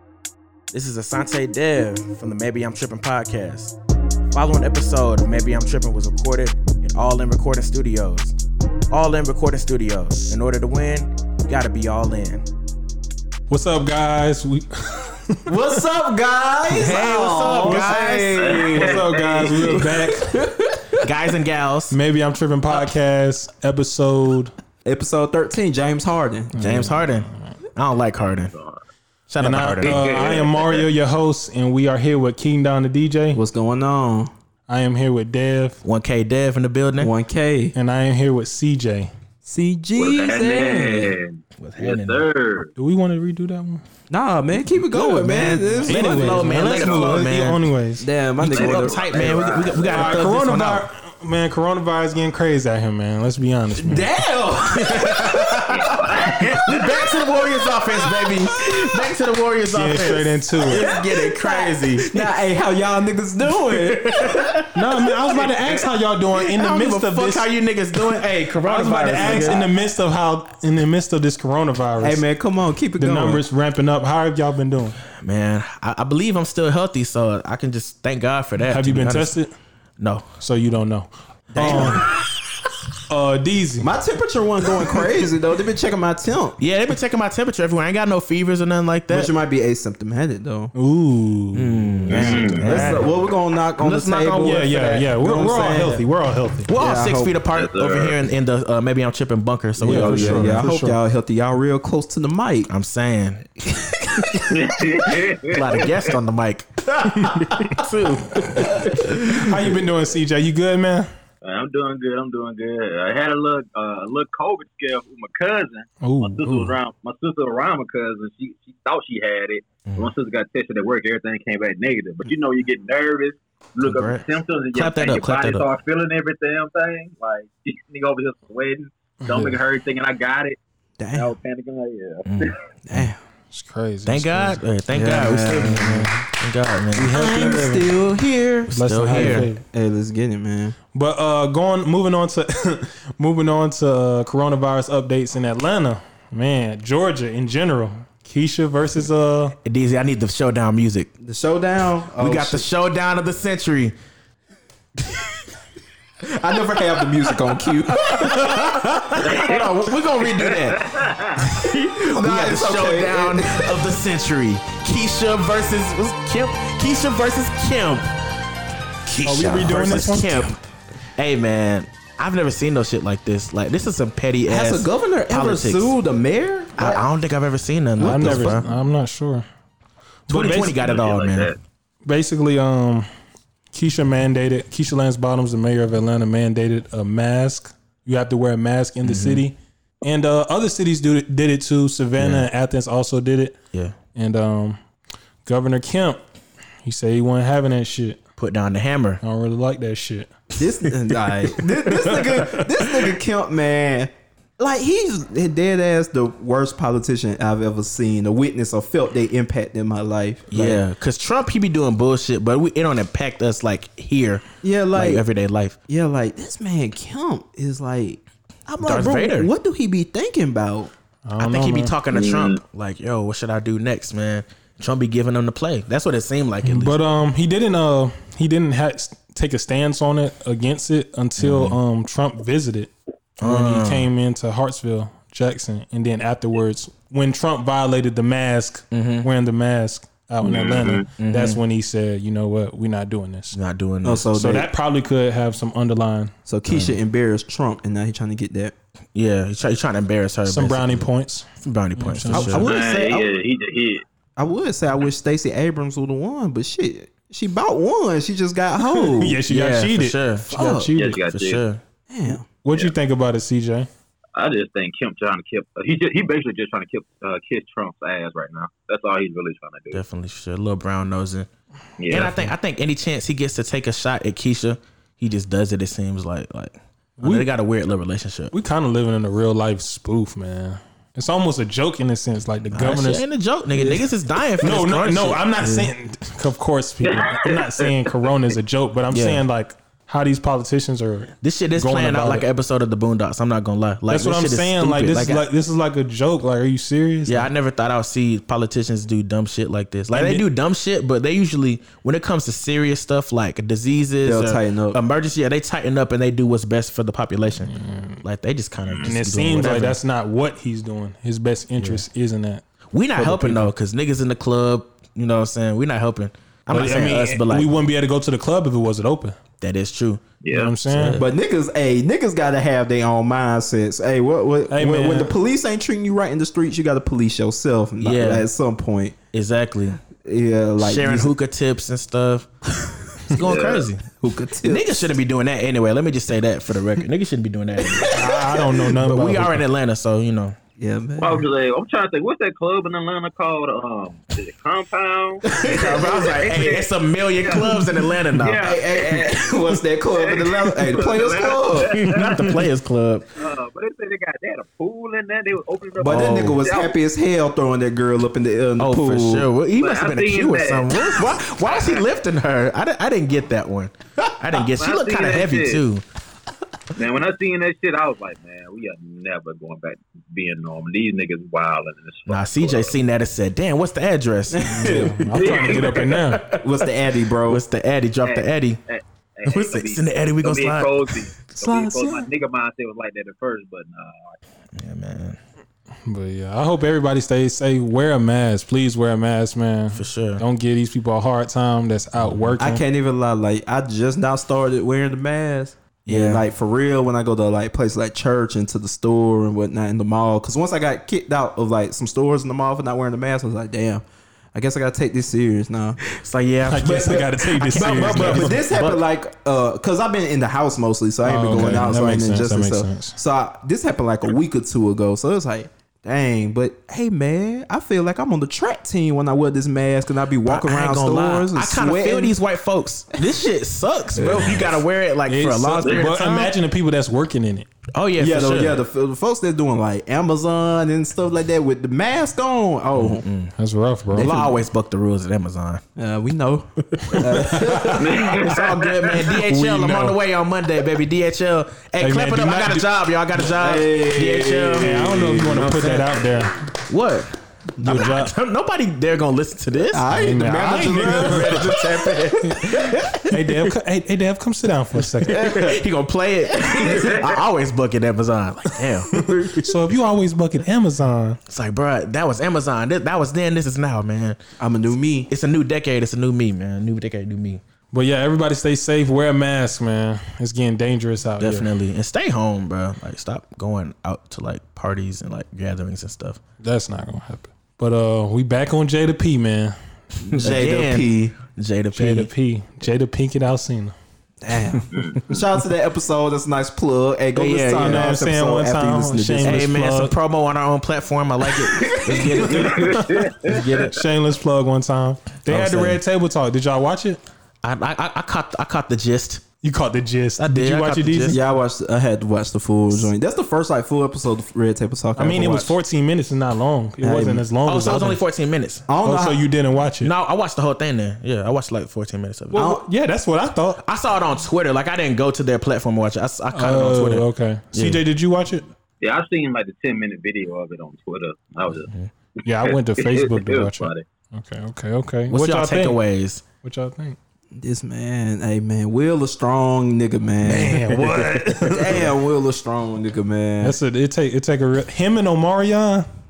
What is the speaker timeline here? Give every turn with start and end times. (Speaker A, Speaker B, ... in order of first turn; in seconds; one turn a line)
Speaker A: 0.7-3.8
Speaker A: 4.3-8.4
Speaker A: 8.9-12.4
Speaker B: 13.5-15.5
Speaker C: 15.5-21.1
Speaker A: 16.7-18.7
Speaker B: 17.5-17.9
Speaker D: 18.3-19.9
Speaker B: 18.7-20.4
Speaker A: 21.0-22.0
Speaker B: 21.9-24.5
Speaker C: 24.9-26.5
Speaker B: 26.5-27.6
Speaker A: 26.6-28.5
Speaker D: 28.5-28.8
Speaker A: 29.3-30.1
Speaker B: 29.4-33.4
Speaker D: 29.8-30.8
Speaker C: 33.3-34.3
Speaker B: 34.7-35.8
Speaker A: 35.8-37.1
Speaker C: 37.0-37.7
Speaker B: 37.7-39.1
Speaker C: 39.5-41.2
Speaker D: 40.0-42.7
Speaker A: 41.6-42.3
Speaker B: 42.8-43.8
Speaker C: 44.1-46.6
Speaker B: 44.9-48.1
Speaker A: 45.1-47.6
Speaker D: 46.7-47.2
Speaker C: 48.0-49.9
Speaker A: 48.4-50.9
Speaker D: 48.5-50.2
Speaker B: 49.9-54.1
Speaker C: 53.8-57.3
Speaker A: 54.7-62.3
Speaker D: 55.7-56.9
Speaker C: 58.0-59.0
Speaker B: 59.7-60.9
Speaker C: 60.9-64.6
Speaker A: 63.5-65.1
Speaker B: 64.7-67.5
Speaker A: 66.4-69.7
Speaker B: 68.6-72.2
Speaker C: 69.2-69.6
Speaker C: 72.0-73.4
Speaker B: 73.0-75.0
Speaker A: 75.2-79.3
Speaker B: 78.7-79.5
Speaker A: 80.0-80.2
Speaker B: 80.4-82.1
Speaker C: 81.5-82.1
Speaker A: 81.6-82.0
Speaker B: 83.1-83.9
Speaker C: 83.8-86.6
Speaker A: 86.6-89.3
Speaker C: 89.1-90.7
Speaker B: 90.7-93.1
Speaker A: 91.5-93.0
Speaker C: 92.1-96.0
Speaker D: 92.1-92.9
Speaker A: 93.8-95.1
Speaker B: 94.4-96.7
Speaker A: 96.7-100.6
Speaker C: 96.8-97.3
Speaker D: 97.5-98.2
Speaker B: 99.8-101.0
Speaker C: 99.8-102.7
Speaker A: 102.7-103.5
Speaker C: 103.7-104.6
Speaker D: 104.5-106.1
Speaker A: 105.1-109.7
Speaker B: 107.2-107.8
Speaker B: 108.4-111.1
Speaker D: 111.4-130.6
Speaker B: 116.0-116.8
Speaker A: 123.8-125.7
Speaker B: 129.2-129.6
Speaker C: 131.0-131.3
Speaker D: 131.1-132.6
Speaker A: 132.2-133.1
Speaker C: 132.8-133.2
Speaker B: 133.5-134.6
Speaker A: 134.1-137.7
Speaker C: 134.9-136.1
Speaker B: 137.0-137.9
Speaker C: 137.0-140.8
Speaker A: 138.6-139.5
Speaker B: 138.7-139.6
Speaker B: 140.9-149.6
Speaker A: 149.6-151.1
Speaker C: 151.2-152.7
Speaker A: 152.2-153.9
Speaker A: 155.0-155.3
Speaker C: 156.2-158.6
Speaker A: 157.9-168.1
Speaker B: 158.2-158.6
Speaker D: 159.2-161.5
Speaker C: 162.0-163.9
Speaker A: 169.1-170.6
Speaker B: 169.2-170.6
Speaker A: 171.2-175.9
Speaker C: 174.5-177.1
Speaker A: 176.8-178.7
Speaker B: 178.0-179.5
Speaker C: 178.0-178.6
Speaker B: 180.3-180.8
Speaker A: 180.3-181.5
Speaker D: 180.3-181.6
Speaker B: 182.1-183.1
Speaker B: 183.7-193.6
Speaker A: 189.0-189.4
Speaker A: 192.2-192.5
Speaker B: 194.2-194.8
Speaker B: 195.4-196.2
Speaker B: 196.8-198.2
Speaker A: 198.4-199.2
Speaker B: 199.2-200.3
Speaker C: 200.6-210.8
Speaker B: 201.8-203.1
Speaker A: 210.5-215.8
Speaker C: 214.6-215.2
Speaker C: 215.9-220.9
Speaker A: 218.8-219.5
Speaker B: 221.3-221.9
Speaker A: 221.4-227.0
Speaker D: 222.1-222.6
Speaker B: 226.6-243.6
Speaker A: 231.4-231.8
Speaker A: 233.4-234.1
Speaker A: 238.9-239.3
Speaker D: 240.4-241.1
Speaker A: 240.6-241.6
Speaker A: 243.5-244.3
Speaker C: 244.0-244.7
Speaker B: 244.3-246.3
Speaker C: 246.5-248.7
Speaker A: 246.7-247.0
Speaker A: 249.1-251.1
Speaker B: 250.4-251.5
Speaker A: 251.6-253.3
Speaker B: 252.0-252.6
Speaker C: 252.3-252.8
Speaker D: 252.6-254.0
Speaker C: 254.4-259.4
Speaker B: 258.8-261.2
Speaker A: 259.5-260.6
Speaker C: 260.4-260.9
Speaker D: 261.0-261.6
Speaker A: 261.2-261.8
Speaker C: 262.1-262.5
Speaker B: 262.6-263.9
Speaker D: 264.4-270.0
Speaker A: 269.9-271.5
Speaker D: 272.0-272.4
Speaker A: 272.1-278.5
Speaker B: 277.2-277.5
Speaker B: 278.5-283.2
Speaker A: 282.7-285.9
Speaker B: 283.8-284.1
Speaker B: 284.6-292.5
Speaker D: 287.1-287.9
Speaker A: 289.1-289.4
Speaker A: 291.4-295.5
Speaker B: 294.1-297.5
Speaker A: 297.3-310.0
Speaker B: 300.1-300.4
Speaker C: 304.2-305.0
Speaker B: 307.7-308.2
Speaker B: 309.0-312.6
Speaker A: 312.9-317.7
Speaker B: 313.1-313.7
Speaker B: 316.7-319.4
Speaker A: 319.6-320.2
Speaker D: 320.4-320.7
Speaker B: 320.5-321.2
Speaker A: 320.9-321.3
Speaker C: 321.1-329.2
Speaker B: 324.7-325.3
Speaker A: 328.0-328.5
Speaker A: 329.3-330.0
Speaker C: 330.2-331.3
Speaker A: 330.8-332.5
Speaker A: 333.2-334.1
Speaker D: 333.4-333.9
Speaker C: 334.2-335.1
Speaker A: 334.6-338.2
Speaker B: 338.1-339.6
Speaker A: 339.0-340.6
Speaker C: 340.8-341.5
Speaker D: 341.2-346.9
Speaker C: 345.5-346.3
Speaker A: 345.6-348.7
Speaker D: 347.4-352.6
Speaker C: 348.6-352.0
Speaker A: 351.9-353.3
Speaker D: 353.4-356.9
Speaker C: 356.0-359.5
Speaker A: 356.0-356.6
Speaker A: 358.8-366.0
Speaker D: 359.8-362.1
Speaker D: 364.5-365.8
Speaker D: 367.0-373.0
Speaker A: 372.3-376.9
Speaker C: 374.5-375.5
Speaker B: 374.7-376.5
Speaker D: 375.4-376.1
Speaker C: 376.5-377.6
Speaker A: 377.4-378.8
Speaker D: 378.2-384.4
Speaker A: 379.4-381.3
Speaker C: 381.6-382.3
Speaker A: 384.8-385.4
Speaker B: 386.1-392.8
Speaker A: 389.9-390.4
Speaker A: 392.2-392.5
Speaker C: 392.6-406.0
Speaker A: 396.1-396.4
Speaker A: 406.1-409.0
Speaker B: 406.7-408.9
Speaker C: 406.8-422.4
Speaker B: 411.2-413.2
Speaker A: 411.5-412.0
Speaker A: 420.5-426.5
Speaker C: 424.2-424.8
Speaker B: 425.3-427.7
Speaker A: 428.0-428.8
Speaker C: 428.2-433.3
Speaker A: 432.9-433.5
Speaker B: 433.6-434.5
Speaker A: 434.1-435.8
Speaker C: 436.0-438.4
Speaker A: 436.9-446.3
Speaker B: 437.1-438.3
Speaker D: 438.0-439.3
Speaker B: 439.3-440.2
Speaker B: 442.0-442.9
Speaker C: 443.4-445.8
Speaker B: 444.8-446.7
Speaker A: 446.9-450.1
Speaker C: 447.8-448.1
Speaker B: 447.8-448.3
Speaker C: 449.9-453.2
Speaker B: 450.1-451.7
Speaker A: 451.0-453.7
Speaker B: 453.3-455.4
Speaker C: 455.3-455.8
Speaker A: 455.3-459.7
Speaker D: 456.6-457.4
Speaker B: 459.2-461.4
Speaker A: 461.5-464.4
Speaker C: 464.6-465.3
Speaker A: 465.3-467.6
Speaker B: 467.9-471.7
Speaker A: 471.4-476.4
Speaker B: 476.6-479.8
Speaker C: 480.3-481.3
Speaker A: 480.3-482.3
Speaker B: 481.9-483.9
Speaker C: 484.4-489.7
Speaker D: 484.9-485.2
Speaker A: 487.4-488.1
Speaker B: 487.8-490.1
Speaker A: 489.4-494.0
Speaker D: 491.8-493.6
Speaker B: 492.4-497.2
Speaker A: 495.5-496.0
Speaker A: 497.6-499.4
Speaker B: 499.6-501.4
Speaker A: 500.4-501.4
Speaker C: 501.3-505.7
Speaker B: 505.2-508.2
Speaker C: 507.0-507.5
Speaker A: 507.7-508.9
Speaker C: 508.9-509.5
Speaker B: 509.0-510.1
Speaker A: 510.0-512.7
Speaker C: 512.5-512.9
Speaker B: 512.6-513.8
Speaker A: 513.8-518.0
Speaker B: 516.5-518.7
Speaker D: 519.0-521.9
Speaker B: 522.5-526.0
Speaker D: 522.6-524.0
Speaker A: 525.3-526.4
Speaker B: 526.6-527.2
Speaker C: 527.5-533.8
Speaker B: 530.4-532.1
Speaker A: 530.9-531.3
Speaker B: 533.6-536.1